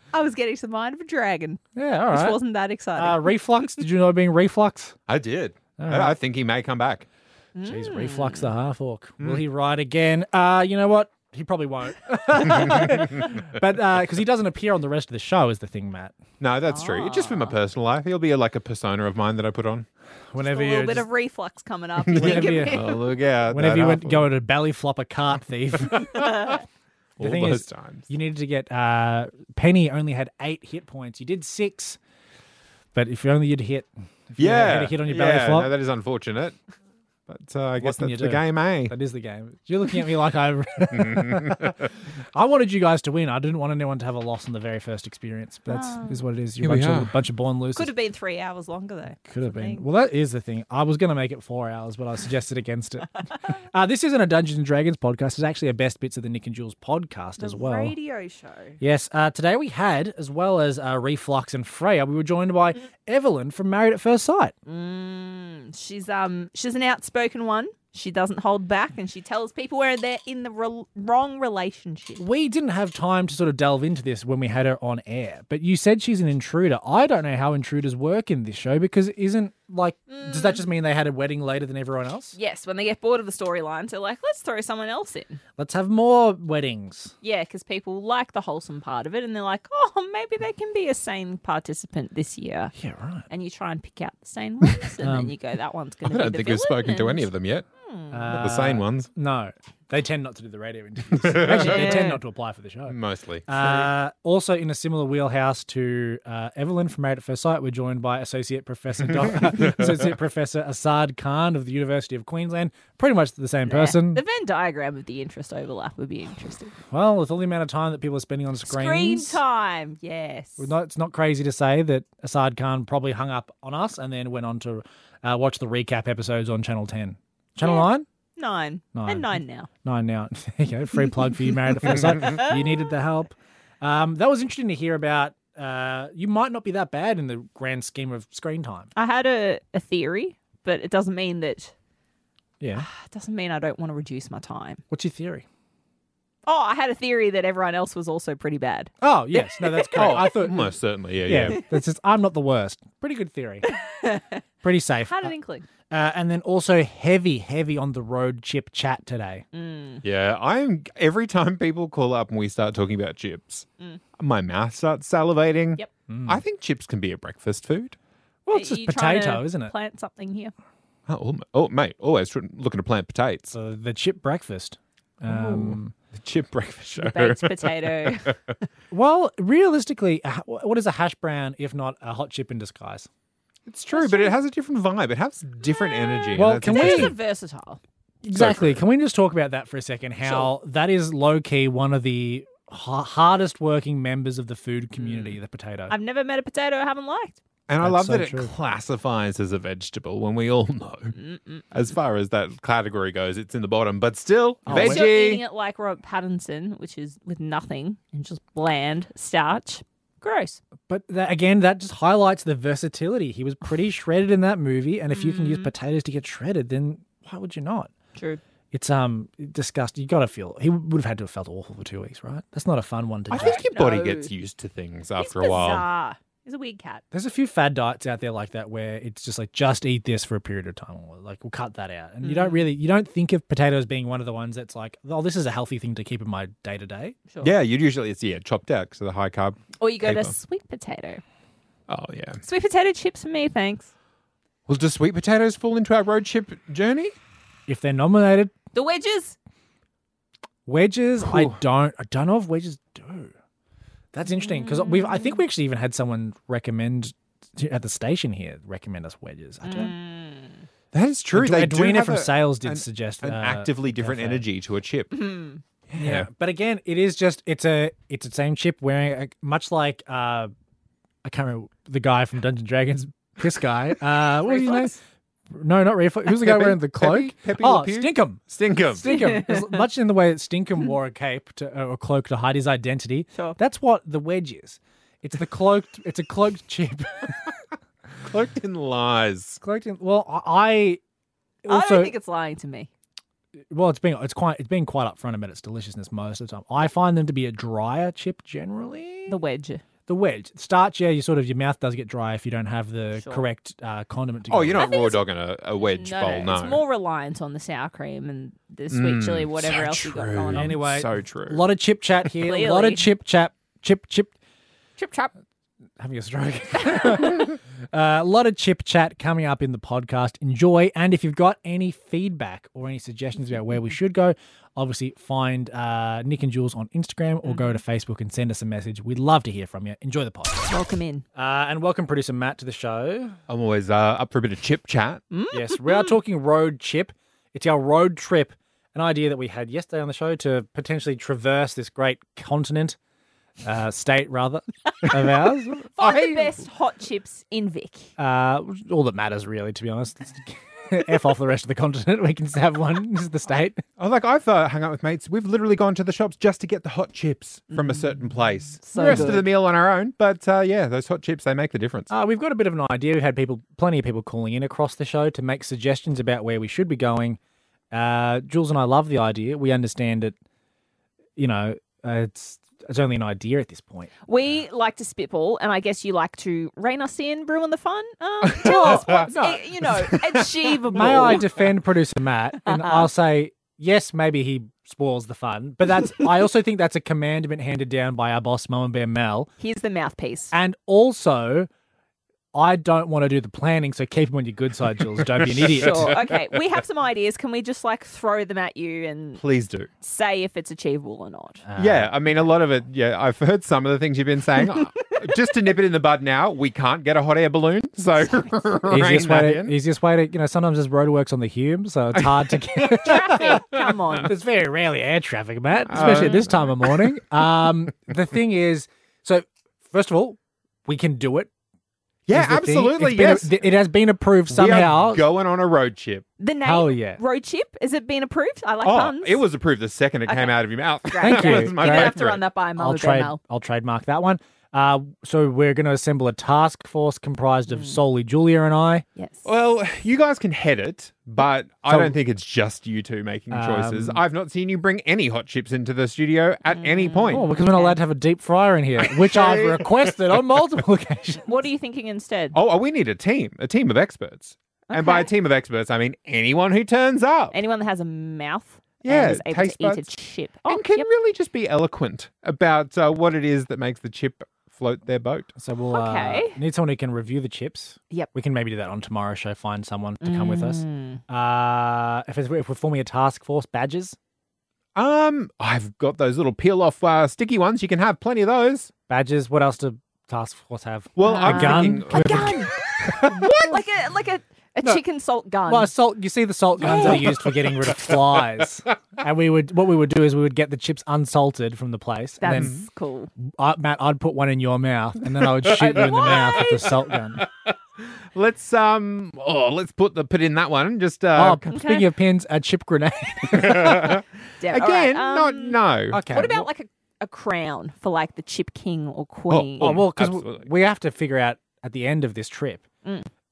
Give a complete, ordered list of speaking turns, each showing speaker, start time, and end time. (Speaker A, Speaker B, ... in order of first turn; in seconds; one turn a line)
Speaker A: 0.1-3.7
Speaker B: 1.8-2.4
Speaker B: 3.0-5.0
Speaker C: 5.1-7.1
Speaker B: 5.8-6.2
Speaker A: 7.6-8.5
Speaker B: 7.7-16.2
Speaker C: 12.5-13.2
Speaker C: 16.4-19.9
Speaker A: 16.7-17.6
Speaker B: 20.3-21.1
Speaker A: 20.4-23.0
Speaker C: 22.0-24.3
Speaker B: 22.1-22.8
Speaker B: 23.5-26.1
Speaker C: 25.9-26.6
Speaker A: 26.1-26.6
Speaker C: 27.2-28.1
Speaker B: 27.2-32.0
Speaker B: 33.0-35.7
Speaker C: 34.4-36.6
Speaker C: 37.3-38.9
Speaker B: 37.8-47.9
Speaker C: 40.9-41.8
Speaker A: 45.7-46.2
Speaker C: 46.6-47.1
Speaker A: 47.8-49.8
Speaker B: 49.3-58.0
Speaker A: 57.4-58.8
Speaker B: 58.8-64.5
Speaker A: 64.7-72.2
Speaker B: 72.2-82.4
Speaker A: 80.1-80.7
Speaker A: 82.4-85.4
Speaker B: 85.6-87.2
Speaker A: 87.2-92.7
Speaker B: 92.8-93.3
Speaker A: 93.3-97.3
Speaker B: 95.0-95.3
Speaker C: 96.0-97.7
Speaker A: 97.8-98.4
Speaker B: 98.1-114.2
Speaker C: 98.3-99.1
Speaker C: 101.1-102.0
Speaker A: 101.5-102.2
Speaker C: 102.9-103.9
Speaker A: 113.7-116.8
Speaker B: 116.9-119.4
Speaker A: 118.7-120.7
Speaker B: 120.6-128.1
Speaker A: 127.6-129.7
Speaker B: 128.9-138.9
Speaker A: 131.8-132.6
Speaker A: 139.0-141.7
Speaker B: 142.6-142.9
Speaker A: 142.8-144.8
Speaker B: 144.9-145.4
Speaker A: 146.5-150.3
Speaker B: 149.0-153.7
Speaker C: 149.9-151.6
Speaker A: 153.8-154.4
Speaker B: 154.6-155.3
Speaker A: 155.1-155.7
Speaker B: 155.9-159.4
Speaker A: 159.5-160.0
Speaker C: 160.0-163.7
Speaker C: 164.2-168.0
Speaker B: 166.1-166.4
Speaker B: 168.5-169.7
Speaker A: 168.5-170.5
Speaker C: 171.1-173.5
Speaker B: 173.5-175.9
Speaker C: 175.3-178.6
Speaker A: 177.0-178.3
Speaker B: 178.9-183.1
Speaker C: 183.7-187.2
Speaker A: 183.9-184.4
Speaker A: 185.6-187.8
Speaker B: 186.4-187.2
Speaker B: 188.2-195.9
Speaker C: 188.3-188.8
Speaker A: 190.2-190.5
Speaker A: 195.0-195.3
Speaker A: 195.9-197.4
Speaker C: 197.7-201.2
Speaker B: 197.8-198.5
Speaker A: 201.2-201.7
Speaker C: 201.7-205.4
Speaker B: 204.7-205.1
Speaker A: 204.7-210.6
Speaker B: 210.9-217.9
Speaker A: 215.1-215.7
Speaker B: 218.7-223.6
Speaker C: 223.3-225.9
Speaker A: 223.3-224.3
Speaker A: 225.2-227.0
Speaker B: 227.1-237.2
Speaker A: 232.2-232.7
Speaker A: 237.3-237.6
Speaker C: 237.4-240.3
Speaker A: 239.8-241.2
Speaker C: 241.9-242.4
Speaker A: 242.4-243.9
Speaker C: 244.7-247.2
Speaker B: 247.7-248.5
Speaker A: 248.7-249.4
Speaker B: 250.7-253.3
Speaker C: 251.2-251.6
Speaker B: 254.1-259.9
Speaker A: 254.4-255.4
Speaker A: 259.6-260.6
Speaker C: 260.9-265.2
Speaker B: 261.3-264.4
Speaker A: 265.1-265.6
Speaker C: 265.9-266.3
Speaker B: 266.0-270.5
Speaker B: 271.2-275.0
Speaker A: 274.5-275.0
Speaker B: 275.5-278.4
Speaker C: 276.4-279.1
Speaker B: 278.9-287.5
Speaker A: 279.1-279.8
Speaker C: 288.2-289.6
Speaker B: 289.6-291.0
Speaker B: 291.6-292.1
Speaker A: 291.7-292.9
Speaker B: 293.7-299.4
Speaker A: 299.3-299.8
Speaker B: 300.1-304.9
Speaker A: 303.2-303.4
Speaker C: 304.5-306.8
Speaker A: 304.8-305.2
Speaker A: 305.8-310.7
Speaker C: 308.9-311.6
Speaker B: 310.5-314.3
Speaker A: 312.4-313.0
Speaker A: 315.0-315.3
Speaker B: 316.0-330.7
Speaker A: 316.9-317.3
Speaker A: 327.4-327.8
Speaker A: 330.7-331.2
Speaker B: 331.4-333.4
Speaker C: 333.5-335.2
Speaker A: 335.3-336.1
Speaker B: 335.5-343.0
Speaker B: 343.6-345.9
Speaker A: 346.0-348.1
Speaker C: 346.0-346.6
Speaker B: 348.2-353.8
Speaker C: 354.0-362.1
Speaker A: 357.7-358.1
Speaker A: 358.8-359.4
Speaker B: 358.9-359.4
Speaker B: 362.1-367.4
Speaker B: 367.9-370.4
Speaker B: 371.4-374.1
Speaker A: 374.3-381.4
Speaker C: 378.4-381.6
Speaker B: 378.6-379.9
Speaker B: 380.9-389.5
Speaker A: 382.7-383.1
Speaker A: 389.6-390.5
Speaker B: 390.5-391.7
Speaker B: 392.5-396.2
Speaker C: 395.2-396.4
Speaker A: 395.8-399.4
Speaker C: 399.4-399.9
Speaker A: 400.0-401.6
Speaker B: 401.6-402.1
Speaker C: 401.8-409.8
Speaker B: 408.9-413.6
Speaker C: 412.1-414.3
Speaker A: 413.0-414.3
Speaker B: 414.2-421.5
Speaker C: 415.9-417.2
Speaker A: 415.9-416.4
Speaker C: 422.3-423.6
Speaker B: 422.3-425.2
Speaker C: 424.5-426.3
Speaker A: 426.4-429.4
Speaker B: 426.6-427.2
Speaker C: 428.8-432.4
Speaker A: 430.3-430.5
Speaker A: 431.1-433.4
Speaker B: 431.2-432.3
Speaker B: 432.8-439.1
Speaker A: 437.7-438.0
Speaker A: 439.2-439.5
Speaker C: 439.4-447.4
Speaker B: 441.9-442.1
Speaker B: 443.5-444.2
Speaker A: 446.7-448.0
Speaker B: 447.3-451.5
Speaker C: 449.1-450.6
Speaker A: 451.5-452.6
Speaker C: 452.5-457.6
Speaker A: 454.9-455.3
Speaker A: 457.5-461.1
Speaker C: 459.0-460.1
Speaker C: 460.7-465.5
Speaker B: 465.6-474.2
Speaker A: 465.9-466.6
Speaker A: 470.2-471.2
Speaker C: 474.9-478.9
Speaker B: 479.1-483.4
Speaker C: 481.2-482.7
Speaker A: 481.2-485.9
Speaker C: 483.3-483.7
Speaker B: 485.7-492.8
Speaker A: 486.8-487.2
Speaker C: 486.9-488.3
Speaker A: 492.4-493.3
Speaker C: 492.5-492.9
Speaker B: 493.4-497.4
Speaker C: 495.4-501.7
Speaker A: 495.7-496.9
Speaker B: 501.4-504.2
Speaker A: 501.7-502.1
Speaker C: 503.6-506.5
Speaker A: 504.6-510.0
Speaker B: 506.1-506.7
Speaker C: 509.5-510.7
Speaker B: 509.8-512.9
Speaker A: 513.0-513.3